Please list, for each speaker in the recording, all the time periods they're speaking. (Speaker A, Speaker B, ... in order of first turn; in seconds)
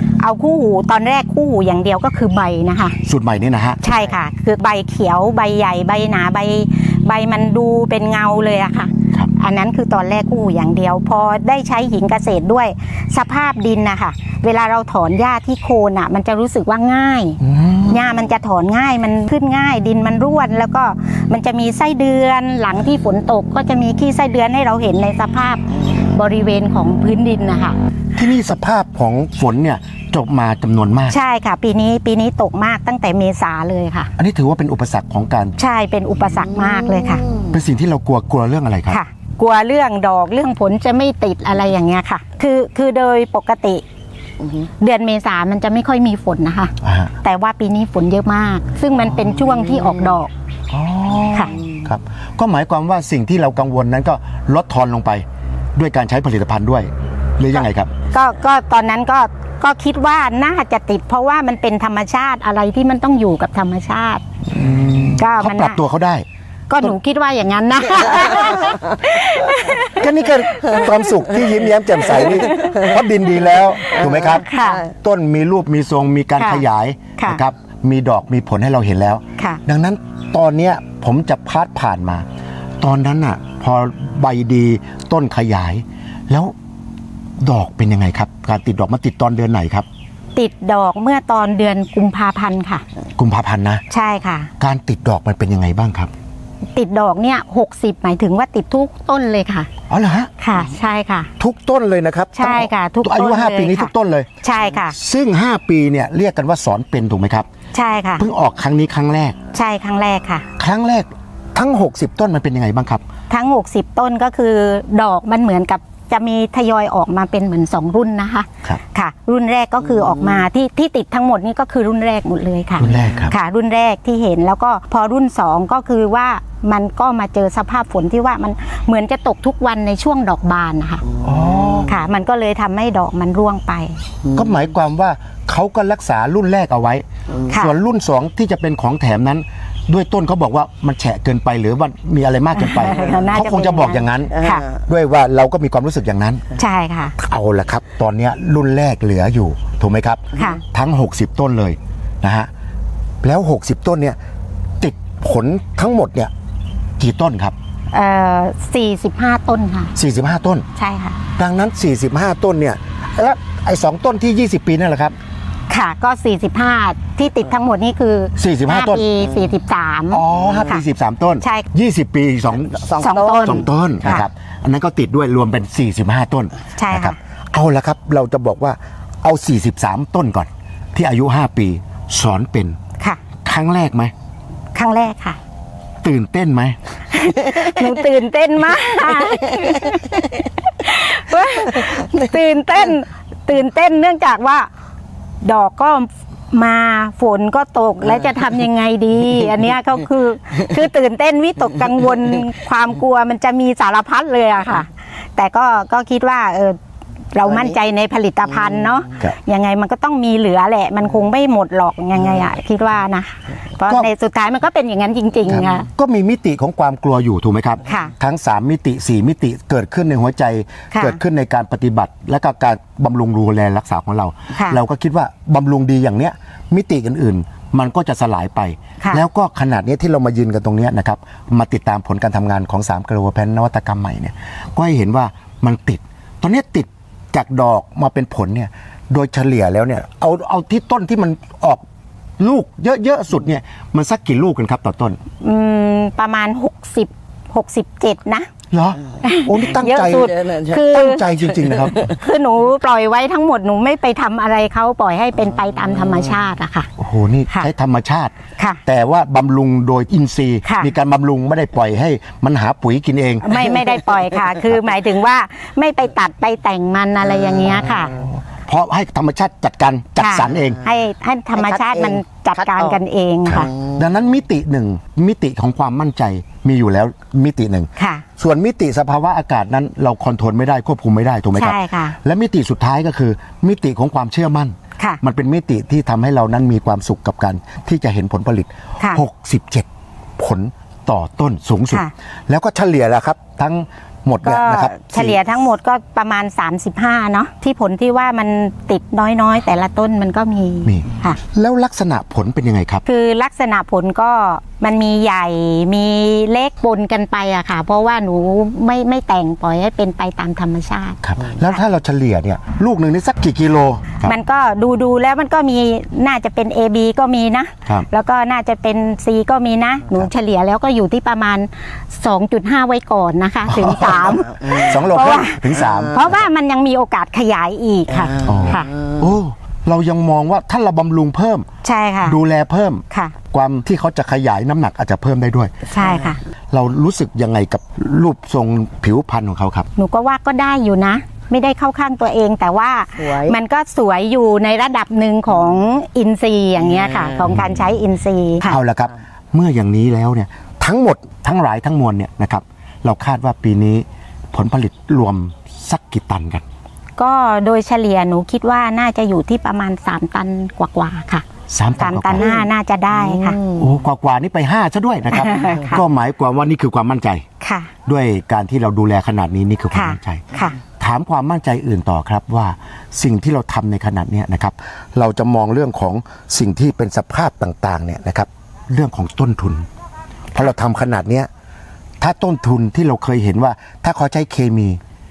Speaker A: 0.2-3.0, 3.8-27.8, 31.1-34.1, 35.6-37.2, 38.9-43.8, 44.8-50.3, 57.6-64.2, 65.2-65.8, 66.7-70.1, 70.6-70.9, 74.3-74.9, 76.4-76.6, 90.3-92.8, 93.9-94.5, 96.7-99.7, 100.4-101.3, 102.3-103.9, 104.4-104.9, 107.7-108.2, 109.5-110.4, 113.3-131.0, 131.8-134.0, 137.5-137.7, 142.6-144.6, 146.6-147.1, 157.9-159.9, 160.7-161.2, 165.7-170.8, 171.4-171.7, 173.0-174.2, 176.8-177.2, 184.7-185.4, 187.1-194.7, 195.4-206.8, 207.3-215.9, 217.8-218.1, 220.9-221.2, 224.5-224.8, 245.4-248.5, 249.2-256.9, 260.6-260.9, 263.4-268.1, 270.2-273.7, 278.0-278.2, 281.5-282.1, 294.4-301.4, 303.0-311.8, 314.2-328.9, 331.8-332.4, 335.9-336.4, 339.9-348.7, 357.2-361.4, 362.0-363.6, 365.3-366.0, 367.6-367.9, 369.9-370.8
Speaker B: 3.0-3.8, 17.4-18.1, 28.2-31.2, 34.2-35.5, 37.5-39.0, 46.8-47.1, 50.7-55.2, 55.8-57.9, 64.5-66.2, 69.9-82.2, 82.8-86.5, 87.4-89.8, 93.2-93.8, 94.6-96.1, 99.9-100.3, 101.4-104.3, 104.9-107.5, 108.2-109.3, 110.6-113.0, 122.8-123.3, 131.2-131.9, 134.3-146.4, 147.2-152.5, 153.2-154.2, 154.8-156.3, 157.0-157.5, 159.9-160.6, 161.4-165.2, 168.3-169.0, 170.1-172.8, 173.4-182.8, 183.4-184.1, 186.0-186.8, 215.5-241.8, 242.4-245.2, 248.7-252.1, 257.0-258.3, 258.9-263.8, 268.1-270.8, 273.5-289.9, 290.4-295.4, 300.9-303.0, 311.2-314.4, 323.7-326.4, 328.4-331.6, 332.2-335.7, 336.7-339.9, 348.6-356.6, 361.7-362.5, 363.8-367.4, 368.1-370.4, 371.0-379.9, 380.5-381.5, 382.2-385.0
Speaker C: 37.2-37.5, 131.2-131.8, 134.2-134.5, 144.3-144.8, 172.8-174.2, 271.5-273.0, 273.6-274.0, 328.2-328.5, 343.2-343.5, 362.4-363.9